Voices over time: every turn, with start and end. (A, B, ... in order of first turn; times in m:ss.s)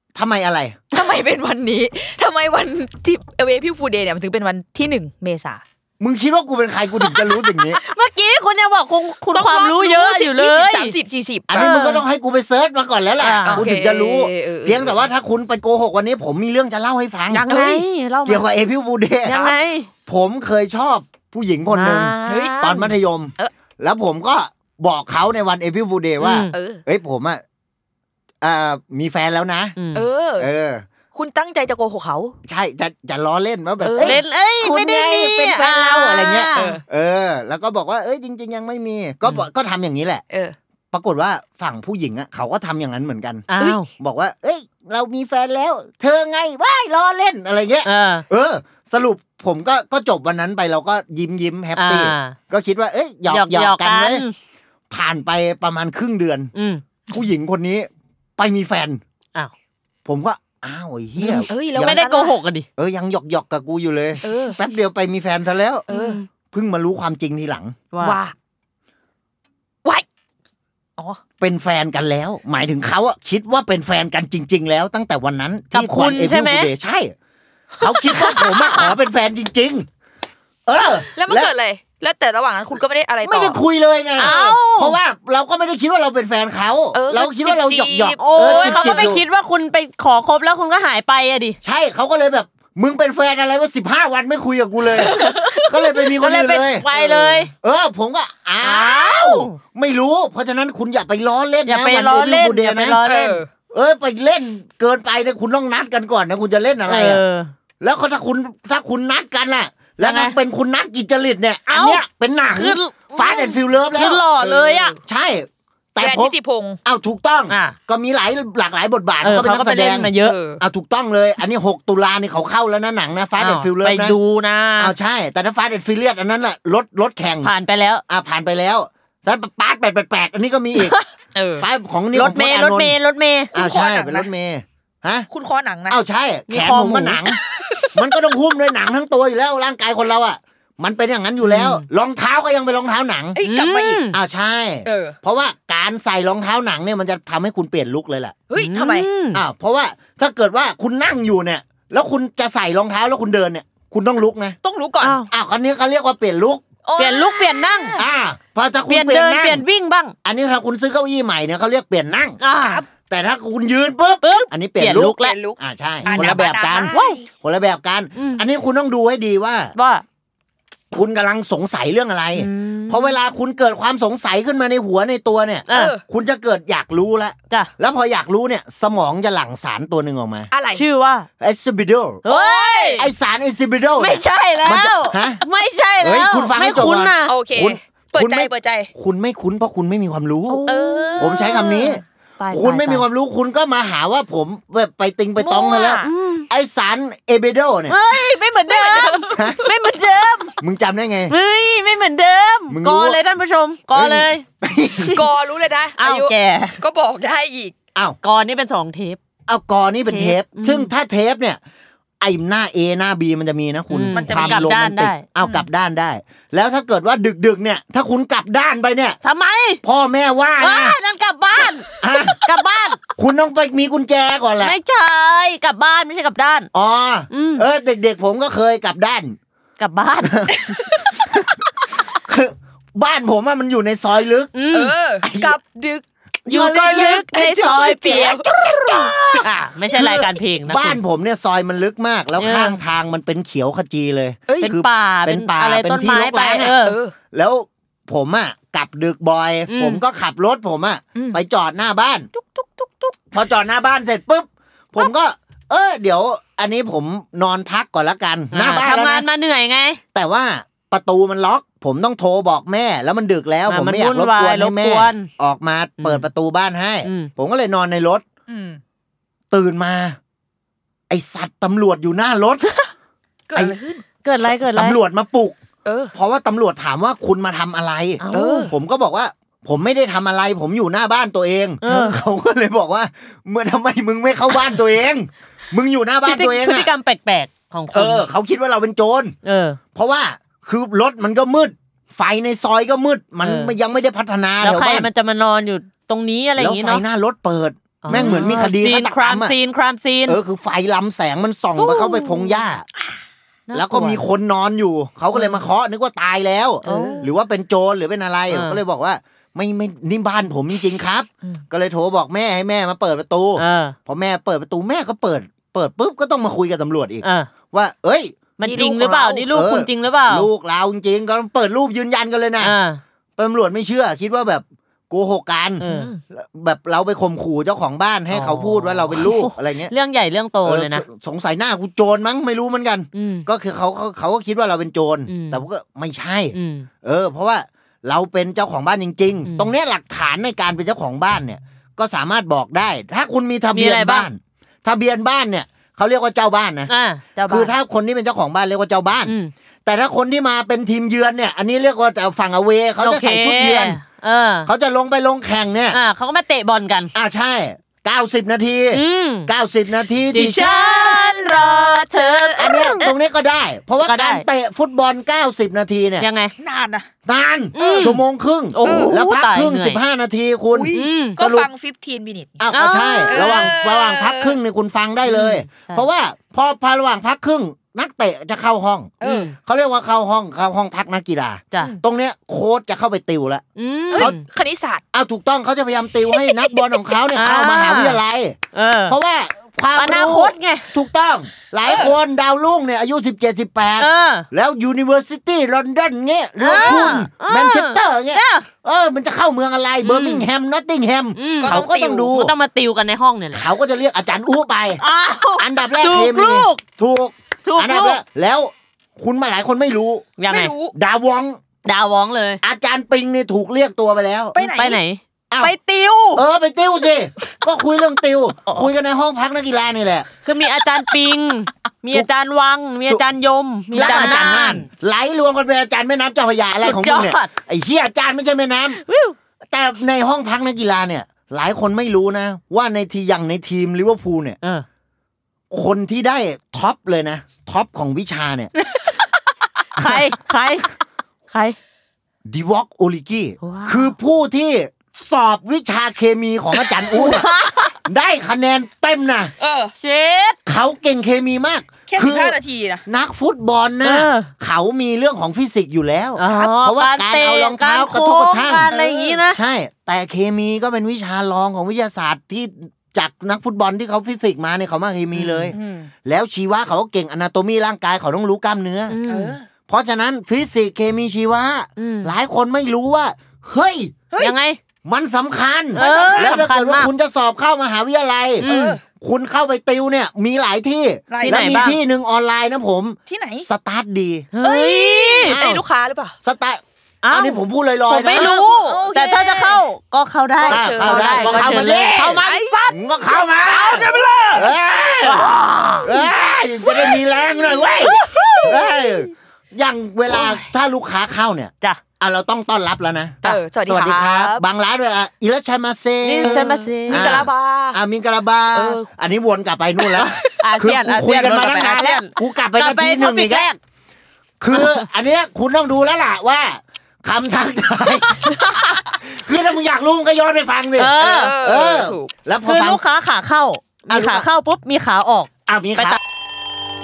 0:00.1-0:00.8 A
0:00.9-0:05.6 B
0:06.0-0:07.8 A
0:07.0-0:07.5 B
0:07.9-0:10.9 C
0:09.3-0:11.8 B
0:11.5-0:17.5 A
0:11.5-0:12.0 C
0:13.2-0:13.7 C
0:13.4-0:15.0 B
0:17.3-0:18.4 C
0:17.5-0:17.9 B
0:18.2-0:19.4 A
0:19.2-0:19.9 C
0:20.0-0:27.4 A
0:21.7-0:22.9 C
0:22.2-0:22.6 B
0:26.2-0:26.5 C
0:26.5-0:26.8 B
0:28.4-0:29.8 A
0:29.8-0:30.0 C
0:29.9-0:30.5 B
0:30.4-0:30.8 A
0:31.1-0:32.3 B
0:32.4-0:40.2 A
0:33.8-0:34.2 B
0:34.0-0:36.8 C
0:36.5-0:36.8 B
0:40.9-0:54.2 A
0:43.5-0:43.9 C
0:47.8-0:48.2 C
0:51.7-0:52.4 C
0:53.2-0:54.3 C
0:54.9-0:56.5 A
0:56.5-0:56.8 C
0:57.1-0:59.0 A
1:00.0-1:02.0 A
1:01.2-1:02.4 B
1:01.8-1:02.7 C
1:02.8-1:05.9 A
1:04.2-1:04.6 B
1:05.9-1:06.2 B
1:05.9-1:06.2 C
1:06.5-1:07.8 A
1:07.9-1:08.2 C
1:08.0-1:08.3 B
1:11.4-1:17.1 A
1:15.7-1:16.7 C
1:17.8-1:19.9 A
1:18.0-1:18.9 B
1:20.7-1:21.5 A
1:21.1-1:23.6 B
1:23.2-1:29.2 A
1:24.2-1:25.0 C
1:24.2-1:24.6 B
1:26.9-1:29.2 B
1:28.2-1:31.6 C
1:31.6-1:36.9 A
1:35.0-1:35.3 C
1:35.2-1:35.5 B
1:36.2-1:37.5 C
1:36.9-1:37.4 B
1:37.6-1:43.0 A
1:38.6-1:39.6 C
1:41.6-1:43.4 C
1:43.0-1:43.5 B
1:43.7-1:47.2 A
1:46.8-1:47.5 C
1:47.8-1:54.2 A
1:50.0-1:50.4 C
1:51.7-1:54.9 C
1:54.4-1:55.0 B
1:55.0-2:04.2 A
1:56.0-1:56.8 B
1:57.5-1:57.8 C
1:59.2-2:00.4 C
2:00.2-2:00.6 B
2:03.4-2:04.9 C
2:04.8-2:07.5 A
2:07.4-2:08.0 C
2:08.1-2:11.0 A
2:10.8-2:11.0 C
2:11.3-2:11.7 B
2:11.6-2:13.0 A
2:12.1-2:13.5 C
2:13.5-2:14.3 B
2:13.5-2:15.3 A
2:15.3-2:16.0 B
2:15.9-2:17.4 A
2:16.5-2:17.2 C
2:17.9-2:23.4 A
2:21.4-2:21.8 C
2:23.3-2:24.0 B
2:23.4-2:24.2 C
2:24.1-2:28.3 A
2:24.8-2:25.2 B
2:28.5-2:29.1 B
2:28.6-2:29.4 C
2:29.3-2:34.6 A
2:34.6-2:35.2 B
2:35.0-2:35.3 C
2:35.3-2:36.6 A
2:36.8-2:38.1 B
2:37.0-2:38.0 C
2:38.0-2:39.6 A
2:38.9-2:40.1 C
2:40.2-2:42.4 A
2:42.4-2:42.8 C
2:43.1-2:49.7 A
2:44.2-2:45.4 C
2:45.0-2:47.2 B
2:46.1-2:47.2 C
2:48.2-2:48.4 C
2:49.7-2:50.0 C
2:50.9-3:00.5 A
2:52.4-2:53.1 C
2:55.7-2:55.9 C
2:55.7-2:56.0 B
3:00.5-3:00.8 B
3:00.7-3:01.3 C
3:01.4-3:02.2 A
3:02.2-3:03.1 C
3:02.3-3:03.0 B
3:03.0-3:05.4 A
3:04.0-3:07.4 C
3:06.0-3:10.7 A
3:07.2-3:08.9 B
3:10.5-3:11.9 C
3:10.7-3:11.9 B
3:11.2-3:18.0 A
3:12.4-3:12.7 B
3:12.6-3:13.0 C
3:15.4-3:16.5 C
3:15.6-3:16.1 B
3:17.9-3:20.5 C
3:18.1-3:19.4 B
3:19.3-3:19.6 A
3:20.6-3:21.4 A
3:21.3-3:24.4 C
3:22.7-3:23.2 A
3:23.9-3:25.2 A
3:25.1-3:27.7 B
3:26.0-3:26.8 C
3:28.2-3:29.2 C
3:29.5-3:31.6 A
3:30.1-3:30.9 C
3:32.2-3:39.2 A
3:33.9-3:35.6 C
3:34.1-3:34.7 B
3:39.2-3:39.8 C
3:39.8-3:41.0 A
3:40.6-3:43.0 C
3:42.0-3:42.4 A
3:43.2-3:44.8 A
3:44.6-3:46.7 C
3:46.7-3:49.4 A
3:47.3-3:47.6 C
3:49.8-3:50.4 C
3:50.2-3:50.5 A
3:50.6-3:51.1 B
3:51.2-3:51.6 A
3:52.1-3:54.5 A
3:54.5-3:54.9 C
3:54.7-3:59.1 B
3:55.2-3:55.6 A
3:56.5-3:58.4 C
3:56.5-4:06.7 A
3:59.4-4:01.0 C
4:02.4-4:02.8 C
4:04.5-4:04.7 B
4:04.6-4:07.0 C
4:06.6-4:07.1 B
4:07.3-4:12.3 A
4:09.7-4:10.0 C
4:12.4-4:13.1 B
4:13.3-4:19.3 A
4:18.5-4:20.0 C
4:20.1-4:28.2 A
4:23.7-4:25.3 C
4:26.0-4:26.3 C
4:27.0-4:27.3 C
4:28.5-4:28.8 B
4:29.5-4:30.2 A
4:31.1-4:32.7 A
4:33.5-4:34.0 B
4:34.2-4:35.0 C
4:34.7-4:35.6 A
4:35.8-4:36.1 B
4:36.1-4:46.9 A
4:38.2-4:38.7 C
4:38.3-4:38.7 B
4:41.8-4:42.2 C
4:46.2-4:48.3 C
4:47.9-4:49.4 A
4:49.4-4:49.8 C
4:49.9-4:55.1 A
4:53.4-4:53.7 C
4:54.6-4:57.0 C
4:56.6-4:59.6 A
4:58.0-5:00.4 C
4:58.1-4:58.6 B
5:00.2-5:02.8 A
5:01.8-5:02.6 C
5:03.7-5:04.2 C
5:03.7-5:18.4 A
5:06.8-5:07.2 B
5:06.8-5:07.3 C
5:08.5-5:08.8 C
5:13.6-5:14.0 C
5:17.2-5:17.5 C
5:18.6-5:20.5 C
5:18.6-5:19.5 B
5:19.5-5:22.8 A
5:22.6-5:23.0 C
5:23.4-5:29.9 A
5:25.8-5:26.1 C
5:25.8-5:26.2 B
5:28.3-5:31.0 C
5:30.6-5:46.9 A
5:33.1-5:33.5 C
5:35.3-5:35.6 C
5:36.5-5:36.9 C
5:39.4-5:39.7 C
5:43.7-5:44.3 C
5:46.9-5:47.7 C
5:47.4-5:49.3 A
5:49.2-5:49.5 C
5:49.8-5:54.0 A
5:53.0-5:54.7 C
5:54.6-5:56.0 A
5:55.9-5:57.1 C
5:57.1-6:00.7 A
5:58.9-5:59.5 C
6:00.3-6:03.0 C
6:00.3-6:03.1 B
6:02.6-6:06.3 A
6:04.0-6:04.4 C
6:06.2-6:06.5 C
6:06.6-6:07.1 B
6:07.2-6:11.7 A
6:07.7-6:10.0 C
6:07.8-6:08.1 B
6:08.8-6:09.2 B
6:10.7-6:12.6 B
6:10.9-6:11.4 C
6:12.6-6:23.6 A
6:12.7-6:13.7 C
6:13.3-6:14.6 B
6:15.4-6:16.0 C
6:19.2-6:19.5 B
6:19.2-6:19.5 C
6:23.8-6:24.4 C
6:24.1-6:25.0 B
6:25.1-6:42.5 A
6:27.3-6:28.2 C
6:28.7-6:29.2 C
6:29.9-6:30.9 C
6:34.0-6:34.5 C
6:36.6-6:38.7 C
6:36.7-6:37.0 B
6:40.0-6:40.5 C
6:41.3-6:43.6 C
6:41.6-6:42.3 B
6:43.5-6:45.0 A
6:45.0-6:46.8 C
6:45.6-6:50.3 A
6:47.6-6:48.2 C
6:50.4-6:50.7 C
6:50.5-6:50.9 B
6:50.9-6:51.6 A
6:51.8-6:52.6 C
6:52.6-6:54.6 A
6:54.5-6:55.0 B
6:54.6-6:56.4 C
6:55.5-6:55.7 A
6:56.3-7:00.3 A
7:00.4-7:04.9 C
7:03.9-7:09.0 A
7:03.9-7:04.5 B
7:06.8-7:07.5 C
7:09.0-7:09.4 C
7:09.7-7:14.6 A
7:15.7-7:18.7 A
7:20.0-7:20.9 C
7:21.5-7:21.8 C
7:22.4-7:27.5 A
7:23.6-7:24.1 C
7:27.1-7:27.9 C
7:28.0-7:29.5 A
7:29.6-7:29.9 B
7:30.0-7:30.6 C
7:30.6-7:38.9 A
7:32.1-7:33.0 B
7:34.0-7:34.5 C
7:36.4-7:39.6 C
7:36.5-7:36.8 B
7:38.9-7:39.4 B
7:39.5-7:49.2 A
7:45.3-7:45.8 C
7:45.7-7:46.1 B
7:49.1-7:49.6 C
7:49.3-7:49.6 B
7:49.9-7:54.2 A
7:52.0-7:52.3 C
7:54.4-7:54.8 C
7:55.0-7:58.7 A
7:55.9-7:56.6 B
7:55.9-7:57.1 C
7:58.6-7:59.0 C
7:58.6-7:59.0 B
7:59.2-8:04.5 A
8:01.3-8:01.9 B
8:01.4-8:02.0 C
8:03.2-8:03.7 B
8:04.5-8:05.6 C
8:04.6-8:06.3 B
8:05.5-8:05.8 A
8:06.4-8:08.6 A
8:07.2-8:13.1 C
8:08.3-8:09.8 B
8:10.6-8:12.9 B
8:10.6-8:15.5 A
8:13.6-8:14.7 B
8:13.6-8:14.7 C
8:15.2-8:16.1 C
8:16.0-8:33.7 A
8:18.0-8:18.7 B
8:18.4-8:18.9 C
8:23.4-8:24.6 B
8:26.2-8:27.4 C
8:26.4-8:28.0 B
8:28.7-8:29.1 B
8:30.0-8:30.5 B
8:30.6-8:33.8 C
8:34.6-8:43.0 A
8:41.0-8:41.5 C
8:41.2-8:42.3 B
8:42.6-8:46.2 C
8:44.1-8:44.5 A
8:45.7-8:46.2 A